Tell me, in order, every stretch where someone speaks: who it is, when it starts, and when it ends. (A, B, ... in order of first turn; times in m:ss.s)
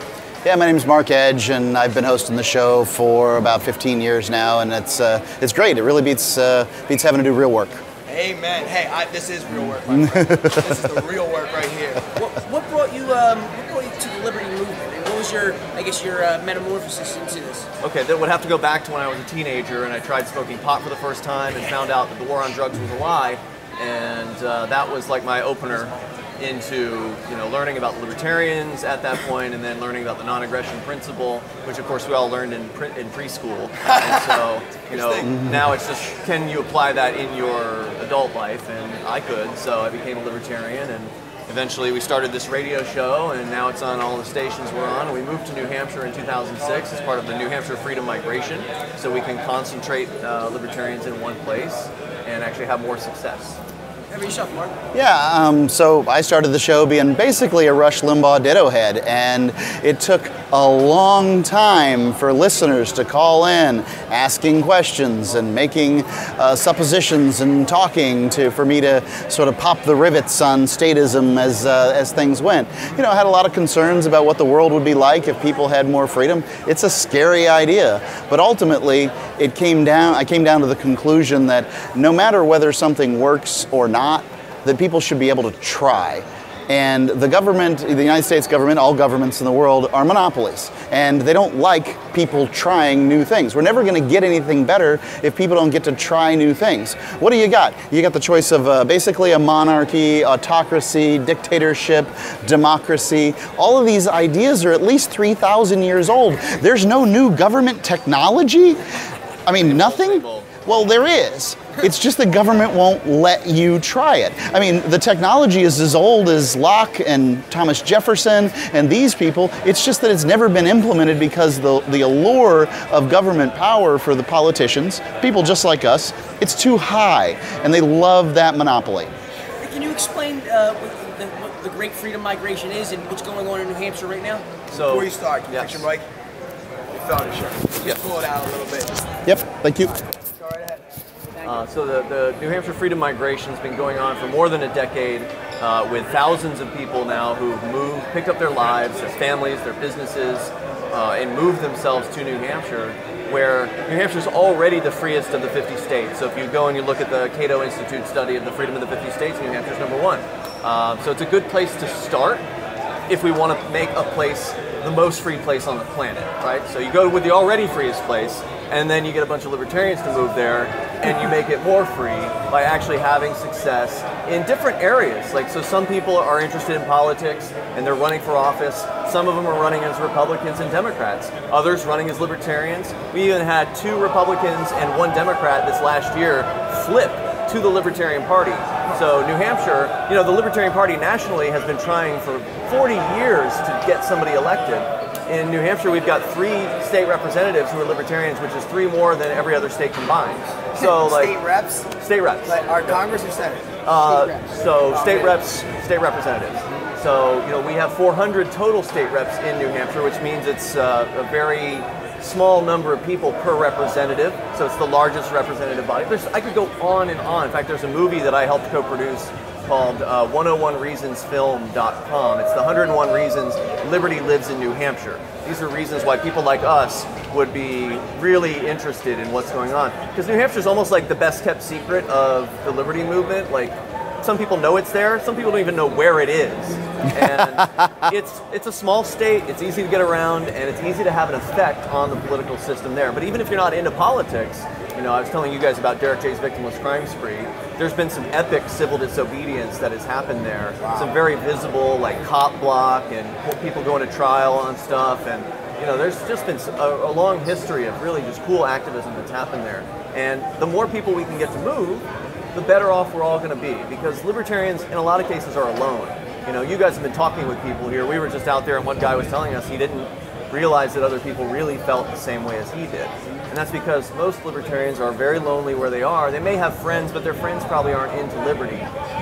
0:00.4-0:07.8 A
0:08.1-0:12.1 B
0:10.0-0:10.8 A
0:12.2-0:17.7 C
0:17.8-0:53.6 D
0:33.9-0:35.3 B
0:35.3-0:35.6 A
0:54.1-0:54.8 C
0:54.9-2:09.1 A
1:49.5-1:50.5 D
2:09.6-2:14.4 C
2:14.7-2:15.8 D
2:14.8-2:16.1 B
2:16.9-2:19.2 B
2:19.2-2:19.9 A
2:19.9-2:20.8 B
2:21.4-2:21.7 C
2:21.4-2:42.4 D
2:43.1-3:21.4 D
3:20.7-3:21.9 B
3:22.0-3:22.6 D
3:22.5-3:24.3 B
3:23.8-4:38.9 D
3:24.9-3:25.4 B
3:57.2-3:58.1 A
4:10.8-4:11.2 B